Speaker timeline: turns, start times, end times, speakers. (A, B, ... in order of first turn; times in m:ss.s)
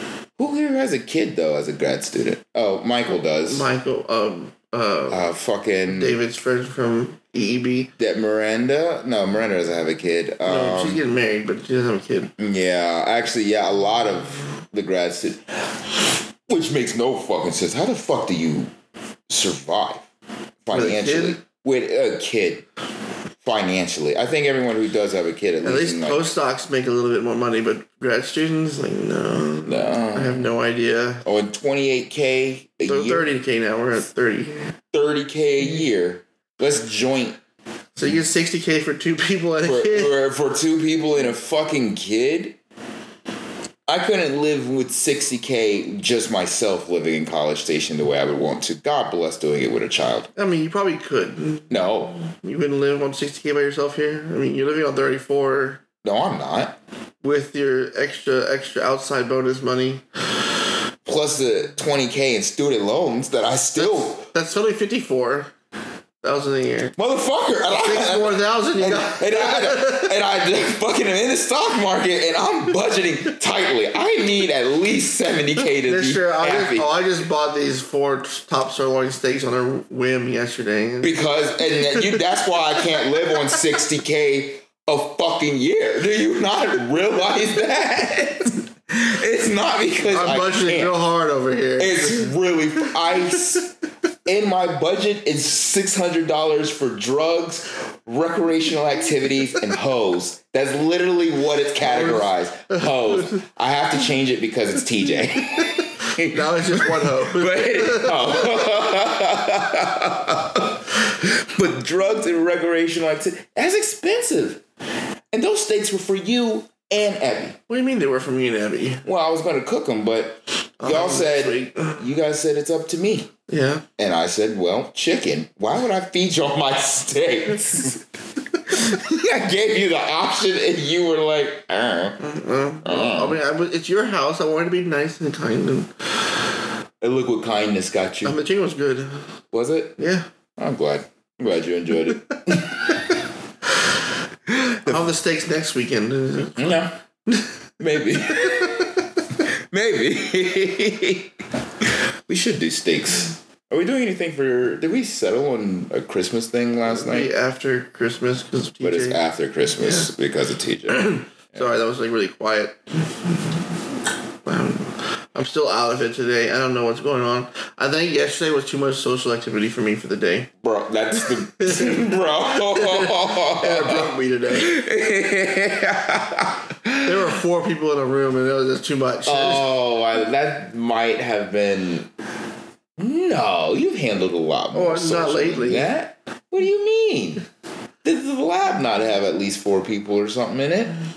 0:00.4-0:03.7 A
0:03.1-0:05.3 B
0:05.1-0:06.2 A
0:05.8-0:07.9 B
0:08.0-0:11.0 A
0:10.4-0:12.3 B
0:12.4-0:15.8 A
0:16.5-0:18.7 A
0:19.3-0:20.0 A
0:20.6-0:22.6 A
0:20.7-0:21.4 B
0:23.4-0:26.3 A
0:25.6-0:31.2 B
0:29.6-0:30.4 A
0:31.2-0:33.3 A
0:32.9-0:34.7 B
0:34.9-0:37.4 A
0:38.0-0:40.1 B
0:39.6-0:42.6 A
0:43.9-0:50.3 A
0:50.4-0:55.8 B
0:51.7-0:52.2 A
0:56.0-0:56.8 A
0:57.2-1:00.0 B
1:01.0-1:04.3 A
1:03.8-1:05.5 B
1:06.2-1:06.9 B
1:07.0-1:16.9 A
1:07.7-1:10.1 B
1:15.8-1:21.1 B
1:21.0-1:30.9 A
1:21.9-1:22.2 B
1:30.1-1:32.3 B
1:31.8-1:33.7 A
1:34.2-1:54.6 A
1:41.8-1:42.9 B
1:46.2-1:48.6 B
1:55.3-1:57.6 A
1:57.7-1:59.0 B
1:59.0-2:03.3 A
2:00.8-2:02.0 B
2:03.5-2:03.8 B
2:04.0-2:08.0 A
2:08.6-2:12.2 A
2:12.2-2:15.9 B
2:12.8-2:13.4 A
2:17.0-2:18.4 A
2:18.2-2:19.2 B
2:19.5-2:20.0 A
2:20.0-2:20.3 B
2:20.6-2:23.0 A
2:24.5-2:25.0 A
2:24.8-2:27.5 B
2:26.6-2:27.0 A
2:27.8-2:31.3 A
2:28.3-2:28.9 B
2:32.3-2:37.3 A
2:36.8-2:39.2 B
2:38.8-2:41.6 A
2:40.9-2:43.6 B
2:44.4-2:50.5 B
2:50.6-2:57.1 A
2:51.6-2:54.7 B
2:57.0-2:59.7 B
2:59.2-3:02.1 A
3:03.0-3:07.4 A
3:04.7-3:05.9 B
3:08.0-3:10.9 A